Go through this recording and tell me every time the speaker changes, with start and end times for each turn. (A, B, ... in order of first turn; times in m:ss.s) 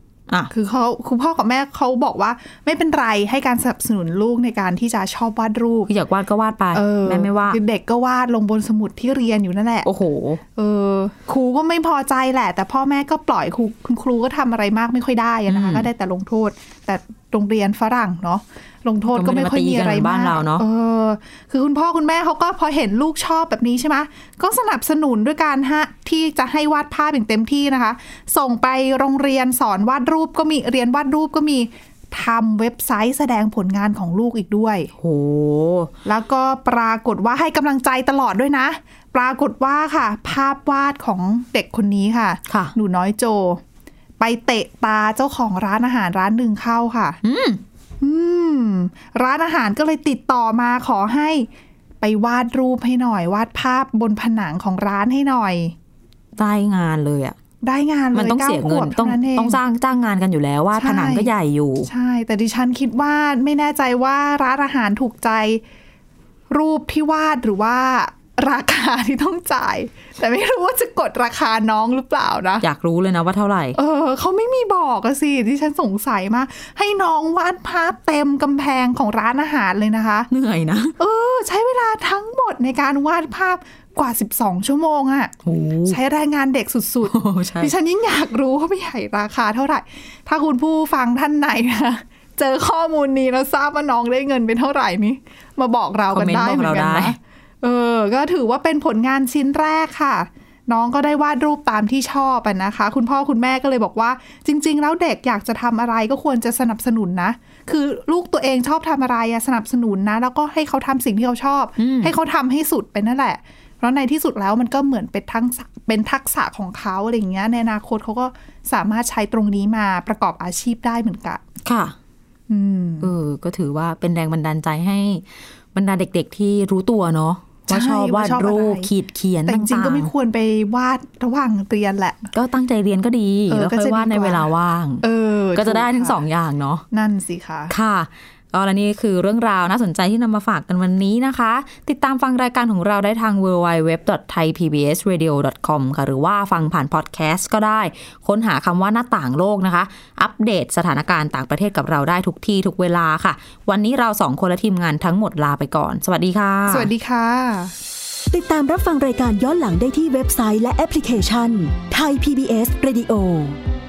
0:00.5-0:05.9 A
0:05.9-0:07.6 B
0:06.7-0:09.9 A
0:09.8-0:10.4 B
0:10.6-0:34.9 A
0:15.5-0:15.9 B
0:19.1-0:20.7 B
0:35.0-0:35.9 B
0:36.0-0:43.6 A
0:42.5-0:42.7 B
0:44.2-0:47.2 A
0:47.2-0:47.6 B
0:48.0-0:51.5 A
0:52.0-0:55.8 A
0:56.4-0:57.4 B
0:57.6-0:59.6 A
0:58.1-1:01.9 B
1:00.8-1:01.3 A
1:01.8-1:05.6 A
1:06.5-1:12.6 A
1:12.6-1:13.8 B
1:13.8-1:20.3 A
1:20.3-1:21.0 B
1:21.0-1:25.3 A
1:25.4-1:26.0 B
1:25.9-2:01.4 A
1:27.0-1:27.7 B
1:36.1-1:37.2 B
1:51.8-1:52.2 B
2:01.6-2:02.0 B
2:02.5-2:03.1 A
2:03.0-2:10.1 B
2:07.7-2:08.9 A
2:09.4-2:12.3 A
2:12.3-2:16.8 B
2:13.5-2:14.5 A
2:15.0-2:16.2 A
2:16.9-2:17.7 A
2:17.7-2:36.9 B
2:36.7-2:37.7 A
2:38.3-2:43.6 C